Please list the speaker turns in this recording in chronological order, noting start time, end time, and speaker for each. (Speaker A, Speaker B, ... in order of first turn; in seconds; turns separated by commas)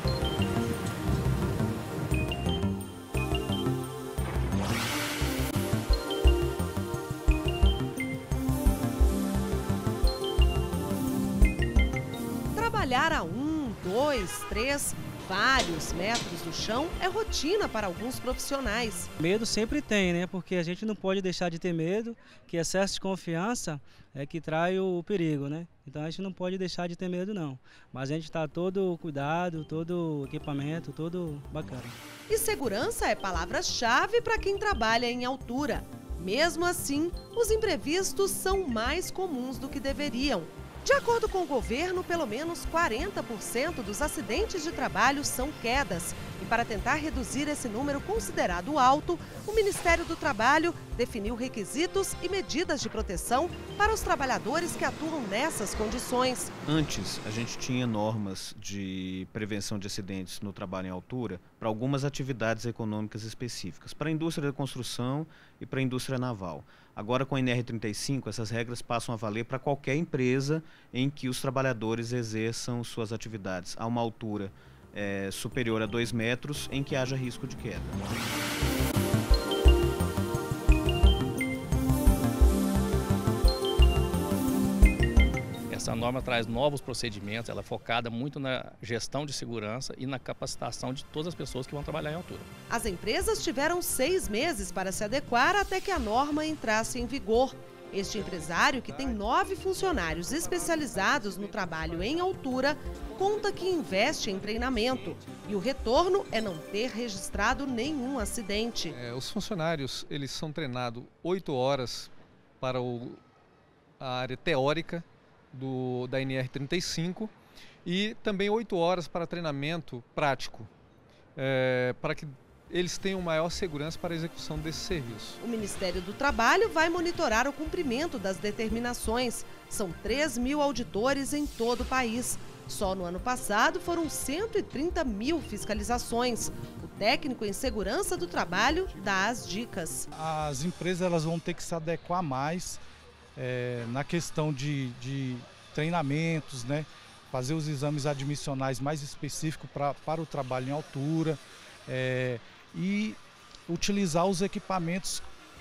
Speaker A: 12.5-19.1, Speaker B: 19.2-32.0, Speaker A: 32.3-56.5, Speaker C: 56.6-78.0, Speaker D: 85.7-92.5, Speaker A: 92.7-109.0, Speaker E: 98.0-102.4, Speaker E: 103.1-105.2, Speaker E: 108.9-113.2, Speaker E: 114.0-117.3, Speaker E: 117.8-120.7, Speaker E: 121.3-125.4, Speaker A: 125.4-140.1, Speaker F: 140.1-142.8, Speaker F: 143.3-155.2